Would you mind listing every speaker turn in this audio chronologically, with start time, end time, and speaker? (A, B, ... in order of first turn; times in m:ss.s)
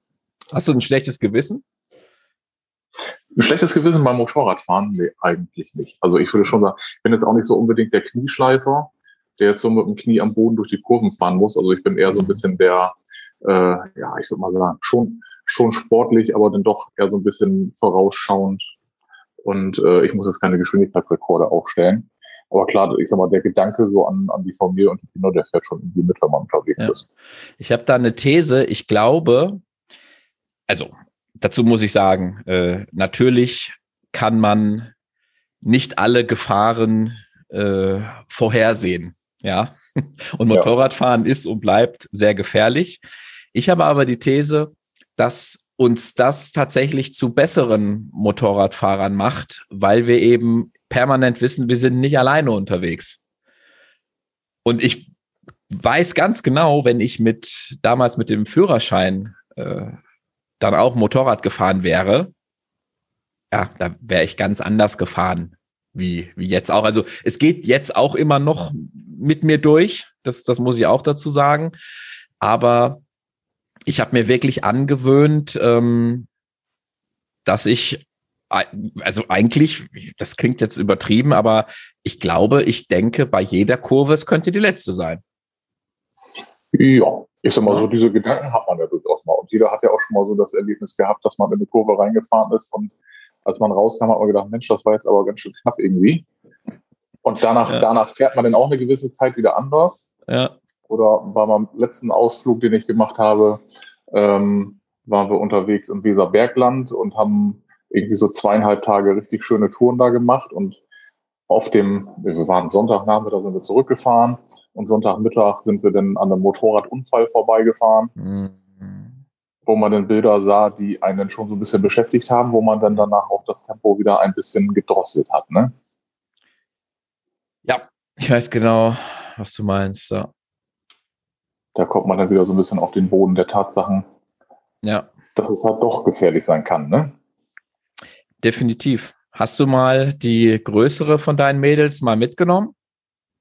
0:00.5-0:01.6 A
0:03.4-0:18.6 B
0:12.1-0:12.4 A
0:19.4-0:27.1 B
0:27.6-0:29.6 A
0:30.7-0:34.9 A
0:35.6-0:43.0 A
0:43.5-0:53.2 A
0:54.6-0:55.1 A
0:55.7-1:00.0 A
1:00.6-1:02.3 A
1:03.5-1:11.7 A
1:12.4-1:13.0 A
1:13.9-1:16.3 A
1:17.4-1:25.2 A
1:26.7-1:32.9 B
1:33.4-1:36.3 B
1:37.2-1:40.1 B
1:40.3-1:40.6 A
1:40.9-1:50.8 B
1:51.5-1:58.1 B
1:58.2-1:59.2 A
1:59.7-2:05.7 B
2:07.6-2:10.3 A
2:11.8-2:14.0 B
2:14.8-2:15.1 A
2:15.4-2:17.2 B
2:18.4-2:22.7 A